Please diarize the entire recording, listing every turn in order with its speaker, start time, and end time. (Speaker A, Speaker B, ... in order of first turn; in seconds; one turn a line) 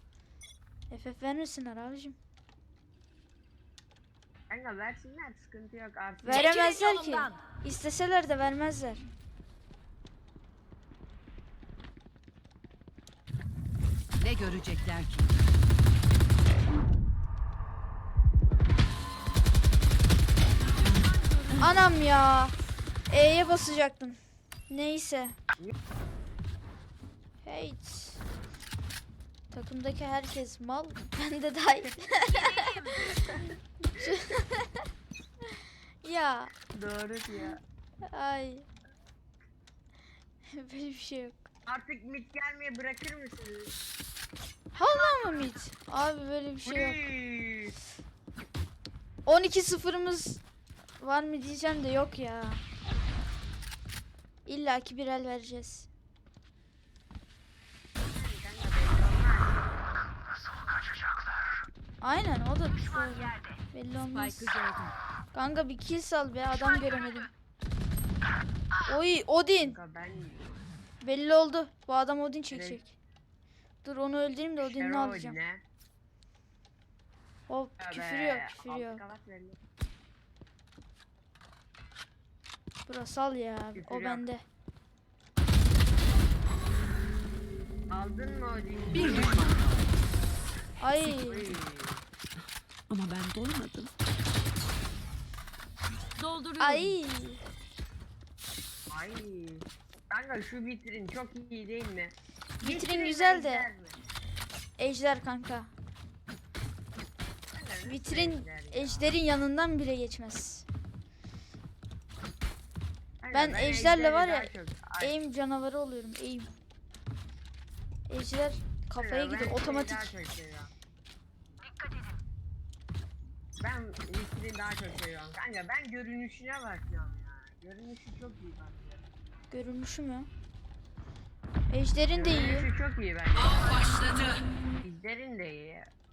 Speaker A: 0.9-2.2
Speaker B: 4.5-6.6
Speaker A: 6.2-9.0
Speaker C: 6.3-7.2
Speaker C: 14.2-15.3
Speaker D: 20.8-21.6
Speaker A: 21.6-22.5
Speaker A: 23.1-24.2
Speaker A: 24.7-25.4
Speaker A: 27.4-28.2
Speaker A: 29.5-32.6
Speaker D: 32.3-33.1
Speaker B: 33.0-33.6
Speaker A: 34.0-34.9
Speaker A: 36.0-36.5
Speaker B: 36.7-37.6
Speaker A: 38.0-38.7
Speaker A: 40.5-41.4
Speaker B: 41.7-43.7
Speaker A: 44.7-47.0
Speaker B: 46.6-47.8
Speaker A: 49.2-50.4
Speaker A: 51.0-52.6
Speaker A: 54.5-55.9
Speaker B: 58.1-59.8
Speaker A: 62.0-64.5
Speaker D: 64.1-64.9
Speaker A: 65.3-67.3
Speaker A: 68.8-69.8
Speaker B: 69.6-70.6
Speaker A: 71.0-72.9
Speaker B: 72.5-72.8
Speaker A: 73.8-75.4
Speaker B: 74.6-75.6
Speaker A: 77.5-79.1
Speaker B: 77.8-79.6
Speaker A: 82.8-84.4
Speaker B: 83.8-84.2
Speaker B: 87.9-89.5
Speaker C: 88.9-89.9
Speaker A: 90.8-91.5
Speaker B: 91.0-92.0
Speaker C: 93.5-93.9
Speaker D: 96.2-96.9
Speaker A: 96.6-97.4
Speaker B: 98.9-104.0
Speaker A: 102.6-103.7
Speaker A: 104.8-105.7
Speaker B: 107.5-109.1
Speaker A: 107.8-110.7
Speaker B: 113.2-115.1
Speaker A: 113.3-116.5
Speaker A: 118.1-120.1
Speaker B: 119.0-120.7
Speaker B: 123.6-129.1
Speaker A: 129.5-130.3
Speaker A: 131.7-132.7
Speaker B: 132.1-134.1
Speaker C: 133.4-134.4
Speaker B: 134.8-135.9